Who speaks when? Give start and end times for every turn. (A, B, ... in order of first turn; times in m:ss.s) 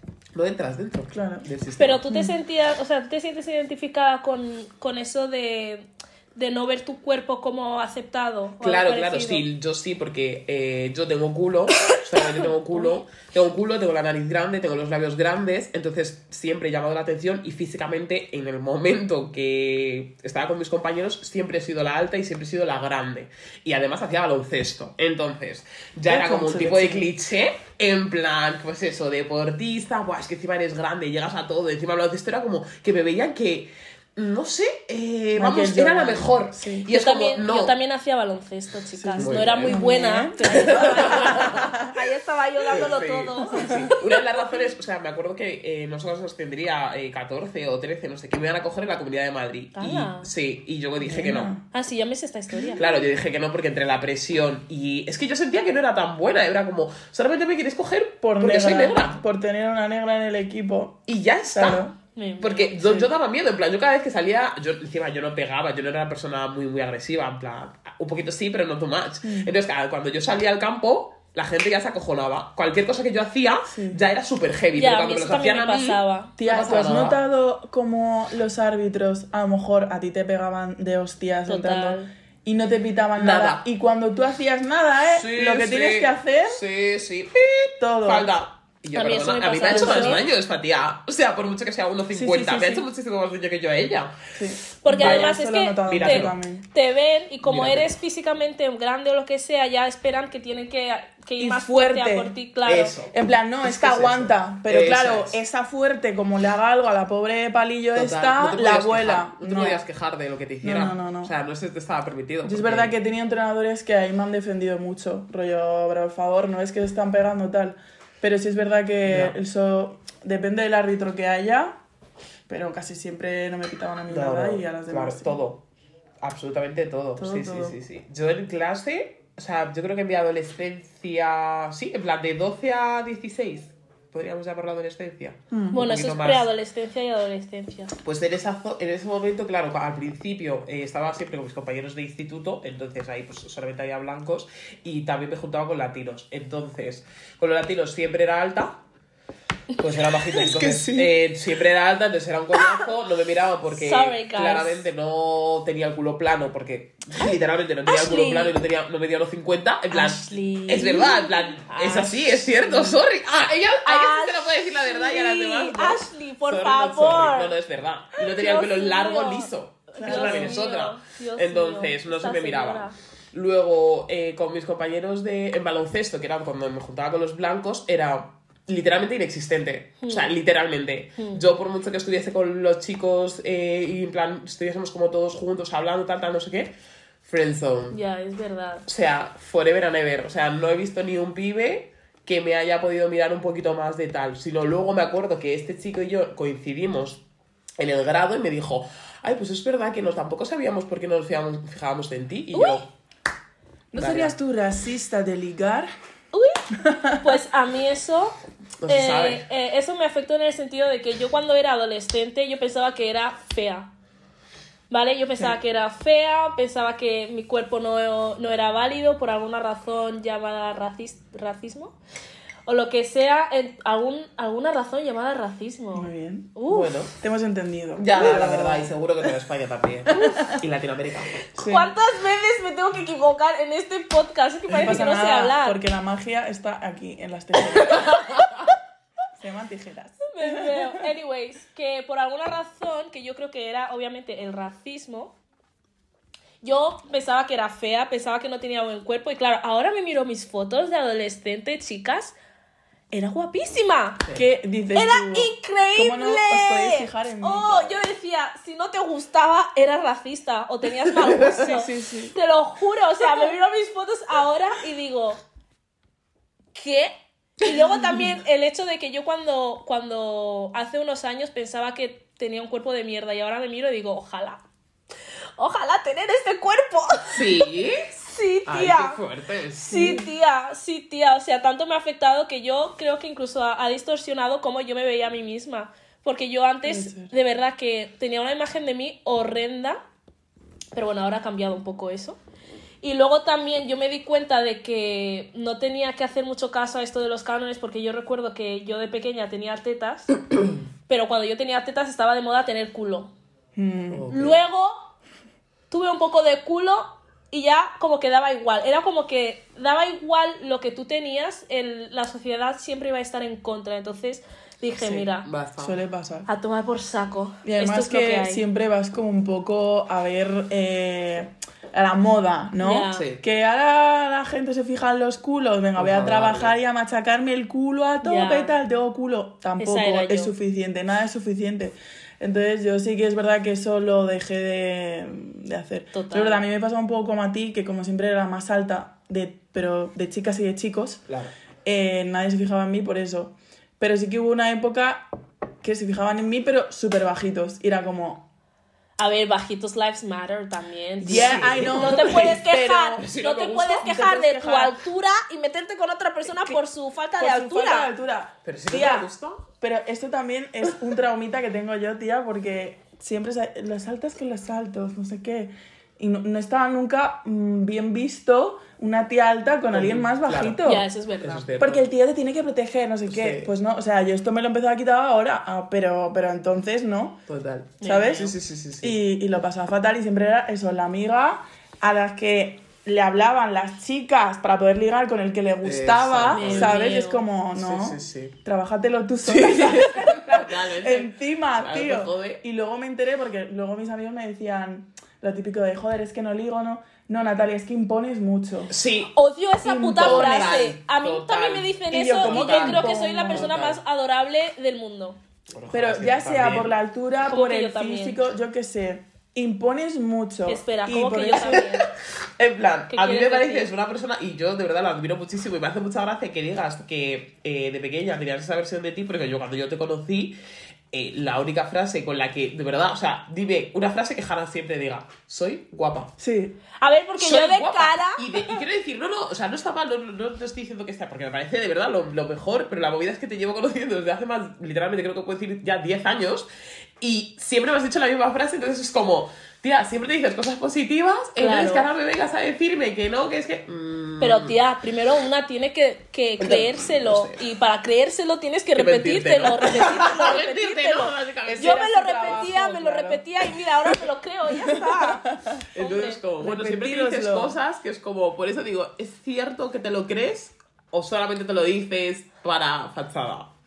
0:00.3-0:02.0 A
0:01.1-0:01.4 B
0:01.8-0:09.4 C
0:02.1-0:02.3 B
0:08.6-0:37.7 A
0:26.1-0:27.1 B
0:35.4-0:36.9 B
0:36.9-0:44.0 C
0:39.0-0:41.9 B
0:39.2-0:39.8 A
0:40.5-0:41.7 A
0:42.7-0:51.5 A
0:43.6-0:43.9 B
0:49.8-0:50.3 C
0:51.0-0:51.6 B
0:51.7-0:52.9 C
0:52.5-0:52.8 B
0:52.8-0:59.2 A
0:58.2-1:02.0 B
1:01.1-1:01.8 A
1:02.2-1:02.7 C
1:02.4-1:17.2 A
1:02.8-1:03.1 B
1:09.2-1:09.5 B
1:13.7-1:14.0 B
1:14.7-1:16.3 C
1:16.4-1:26.6 B
1:21.5-1:22.1 C
1:23.2-1:23.6 A
1:25.1-1:34.2 A
1:27.8-1:28.3 B
1:28.9-1:30.2 C
1:29.6-1:30.2 B
1:32.1-1:32.9 B
1:34.4-1:36.6 B
1:34.8-1:42.9 C
1:34.9-1:35.3 A
1:35.8-1:36.4 A
1:37.4-1:37.9 A
1:41.4-1:42.3 B
1:42.6-1:45.4 A
1:43.1-1:49.8 B
1:47.9-1:52.9 A
1:50.6-1:51.3 B
1:52.4-2:01.7 B
1:59.0-1:59.4 A
2:02.5-2:05.4 B
2:04.1-2:05.6 A
2:06.2-2:16.5 A
2:07.2-2:07.8 B
2:15.5-2:15.8 B
2:15.7-2:17.9 C
2:18.0-2:28.8 A
2:29.8-3:06.7 A
2:30.4-2:31.1 B
2:33.7-2:34.8 C
2:37.8-2:38.5 C
2:39.9-2:42.2 C
2:41.9-2:43.0 B
2:43.8-2:47.5 C
2:48.2-2:52.9 C
2:50.0-2:50.7 B
3:00.0-3:00.3 C
3:07.2-3:08.0 A
3:07.9-3:08.8 C
3:08.9-3:17.2 A
3:17.8-3:22.9 A
3:22.5-3:22.8 C
3:23.9-3:25.9 B
3:24.0-3:24.3 A
3:26.3-3:26.6 C
3:26.8-3:27.2 B
3:27.2-3:28.4 C
3:28.8-3:29.4 A
3:28.9-3:33.9 C
3:34.9-3:42.0 C
3:42.6-3:47.0 C
3:45.9-3:46.5 B
3:46.7-3:47.1 A
3:47.2-3:48.9 B
3:48.0-3:51.6 A
3:50.2-3:50.6 B
3:51.6-3:51.9 B
3:51.6-3:55.8 C
3:54.7-3:58.1 B
3:59.4-4:01.0 B
4:00.3-4:05.4 C
4:06.6-4:12.3 C
4:13.1-4:14.2 C
4:14.2-4:14.5 A
4:14.3-4:18.0 B
4:14.9-4:25.4 C
4:21.2-4:21.8 A
4:21.4-4:22.4 B
4:26.7-4:34.6 C
4:35.6-4:39.2 C
4:37.3-4:40.2 A
4:39.8-4:50.0 C
4:39.9-4:40.2 B
4:46.8-4:47.3 B
4:50.9-4:52.4 C
4:53.0-5:00.3 C
5:01.1-5:03.3 C
5:03.8-5:04.3 B
5:04.1-5:04.6 A
5:04.3-5:05.1 C
5:05.9-5:15.5 C
5:15.0-5:16.5 B
5:15.4-5:16.0 A
5:16.5-5:18.6 C
5:17.6-5:41.3 B
5:22.8-5:23.2 C
5:23.1-5:23.4 A
5:25.9-5:26.7 A
5:28.2-5:28.7 C
5:29.8-5:30.5 C
5:36.1-5:36.6 C
5:41.8-5:45.3 B
5:45.8-5:48.5 B
5:49.2-5:58.1 C
5:51.2-5:53.2 B
5:51.3-5:52.6 A
5:53.2-5:54.1 A
5:53.9-5:55.0 B
5:56.5-5:56.8 B
5:57.4-5:59.3 B
5:58.6-5:59.6 A
5:59.8-6:11.0 B
6:09.9-6:10.8 A
6:10.8-6:11.6 C
6:11.4-6:12.0 A
6:11.8-6:17.4 B
6:13.3-6:13.7 A
6:17.5-6:19.2 A
6:18.0-6:18.4 C
6:18.0-6:38.9 B
6:25.8-6:27.1 A
6:26.5-6:27.4 C
6:27.8-6:28.5 A
6:29.4-6:32.6 A
6:38.9-6:39.3 A
6:39.3-6:45.4 C
6:39.8-6:40.9 B
6:40.2-6:44.0 A
6:42.1-6:43.7 B
6:45.7-6:46.9 A
6:45.9-6:52.0 B
6:47.4-6:48.4 C
6:50.7-6:52.1 C
6:51.6-7:00.6 A
6:53.1-6:53.9 C
7:01.1-7:06.3 A
7:06.4-7:06.8 B
7:07.0-7:08.5 C
7:07.4-7:16.7 A
7:17.2-7:24.7 A
7:21.6-7:22.0 C
7:24.4-7:36.4 C
7:26.6-7:27.6 A
7:29.0-7:32.6 A
7:31.7-7:33.4 B
7:34.7-7:35.8 B
7:35.9-7:43.7 A
7:36.6-7:37.8 B